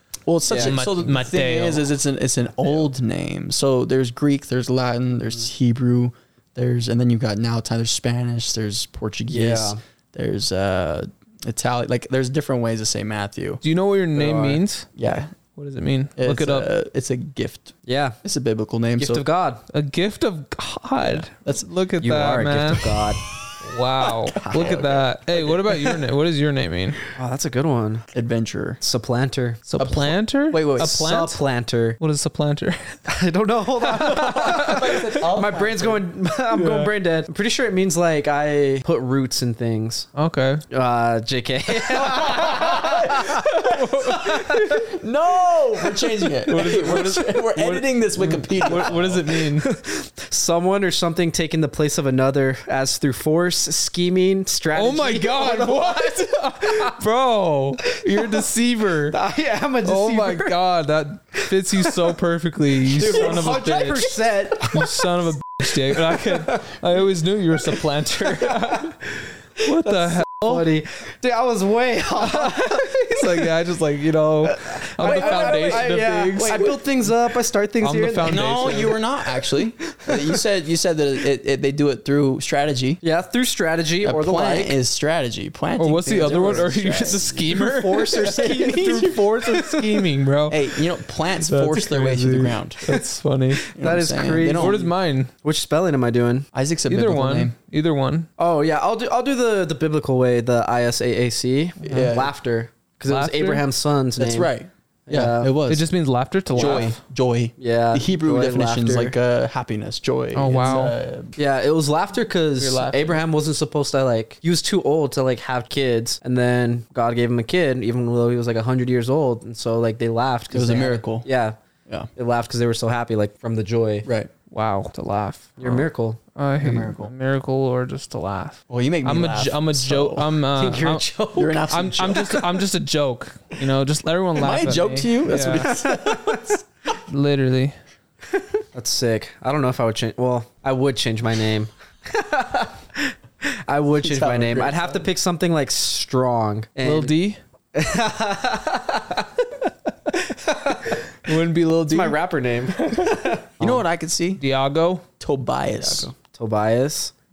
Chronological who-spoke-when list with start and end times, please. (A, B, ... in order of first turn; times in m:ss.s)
0:00.2-0:13.6 A
0:00.5-0:00.8 B
0:00.6-0:01.9 C
0:09.3-0:09.8 B
0:13.6-0:14.9 C
0:14.2-0:15.4 A
0:15.6-0:16.7 C
0:16.2-0:19.2 A
0:17.8-0:18.2 B
0:19.0-0:19.6 B
0:19.7-0:27.0 C
0:21.0-0:21.7 A
0:22.0-0:23.2 B
0:24.3-0:25.0 B
0:24.5-0:25.8 A
0:27.1-0:28.1 B
0:28.1-0:28.8 A
0:28.8-0:29.6 B
0:29.7-0:31.4 C
0:29.8-0:31.0 A
0:30.8-0:32.0 B
0:32.0-0:33.0 C
0:33.1-0:40.1 B
0:33.9-0:35.0 C
0:34.0-0:36.0 A
0:36.5-0:36.9 C
0:40.1-0:40.6 C
0:40.7-0:43.5 B
0:42.1-0:44.8 C
0:42.1-0:44.1 A
0:44.0-0:44.8 B
0:44.8-0:49.2 A
0:46.4-0:49.7 C
0:48.6-0:56.9 B
0:54.7-0:59.2 C
0:57.9-0:58.4 B
0:59.1-1:00.6 B
0:59.8-1:10.7 C
1:01.4-1:02.0 B
1:02.9-1:06.8 B
1:03.1-1:03.3 A
1:07.6-1:08.9 B
1:09.6-1:13.5 B
1:12.2-1:16.8 C
1:14.4-1:19.0 B
1:15.0-1:16.8 A
1:17.8-1:19.0 C
1:18.2-1:23.0 A
1:19.8-1:20.2 B
1:23.0-1:24.8 B
1:24.0-1:27.5 A
1:25.8-1:30.6 C
1:26.2-1:30.0 B
1:30.5-1:32.8 A
1:31.4-1:33.6 C
1:33.6-1:34.9 B
1:33.7-1:34.9 A
1:34.5-1:35.3 C
1:35.4-1:36.5 B
1:36.5-1:37.5 A
1:36.9-1:38.3 C
1:38.4-1:44.5 B
1:41.8-1:42.3 A
1:41.8-1:42.1 C
1:43.0-1:43.6 C
1:44.2-1:45.9 A
1:45.1-1:45.5 B
1:45.7-1:47.0 C
1:46.5-1:51.3 A
1:46.6-1:46.9 B
1:47.6-1:49.1 B
1:50.3-1:51.0 C
1:51.4-2:01.6 B
1:52.6-1:53.1 A
2:00.5-2:01.2 A
2:02.2-2:04.1 B
2:04.0-2:04.3 A
2:04.5-2:15.7 C
2:05.6-2:06.2 B
2:06.6-2:07.1 A
2:08.7-2:10.3 A
2:10.5-2:11.7 B
2:11.4-2:12.6 A
2:14.3-2:16.6 A
2:15.7-2:16.5 B
2:17.1-2:17.8 C
2:18.7-2:27.1 B
2:24.0-2:25.1 A
2:26.8-2:27.4 C
2:27.7-2:29.3 B
2:30.1-2:31.0 B
2:31.2-2:32.2 C
2:31.9-2:33.8 B
2:32.8-2:33.1 C
2:33.6-2:34.4 A
2:34.4-2:35.0 C
2:35.2-2:36.1 A
2:35.8-2:37.1 B